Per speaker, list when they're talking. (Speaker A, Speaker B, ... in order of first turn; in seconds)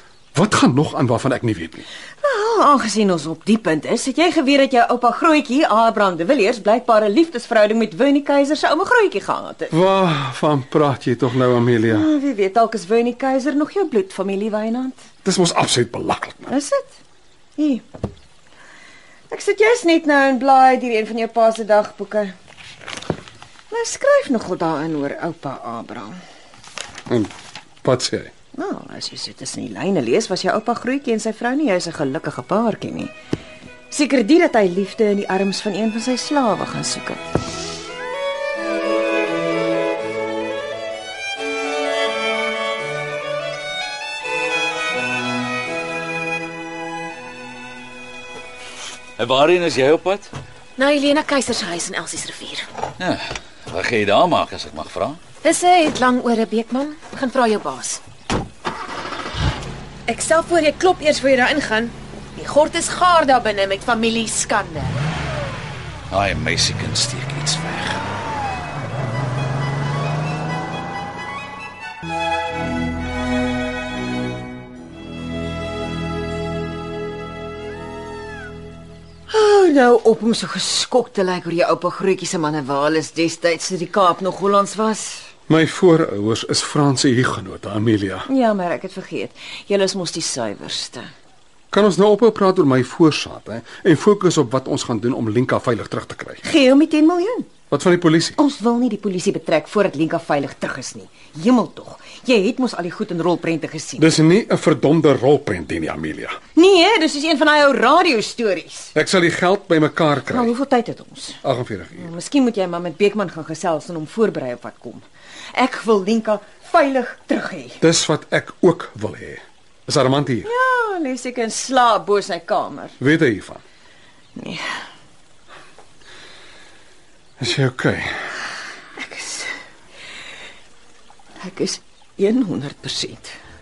Speaker A: 0.3-1.9, 9.7-12.1, 15.2-16.5, 27.1-28.3, 85.5-88.3, 91.7-96.4, 97.7-98.4, 104.0-106.4, 109.0-110.5, 111.4-112.1, 117.8-120.5, 123.0-123.6, 127.4-128.1
Speaker B: 2.2-9.7, 11.9-15.1, 16.5-16.9, 17.6-17.8, 19.3-22.3, 23.7-26.2, 28.6-33.1, 33.9-37.3, 79.3-85.3, 88.3-91.1, 96.4-97.5, 98.4-104.1, 106.5-108.9, 110.3-111.4, 112.0-117.8, 120.4-123.0, 124.4-124.7, 129.0-129.5, 131.4-133.3
Speaker C: 49.2-50.3, 53.0-55.2, 66.1-68.0
Speaker D: 50.8-52.7, 55.4-58.0, 60.1-65.0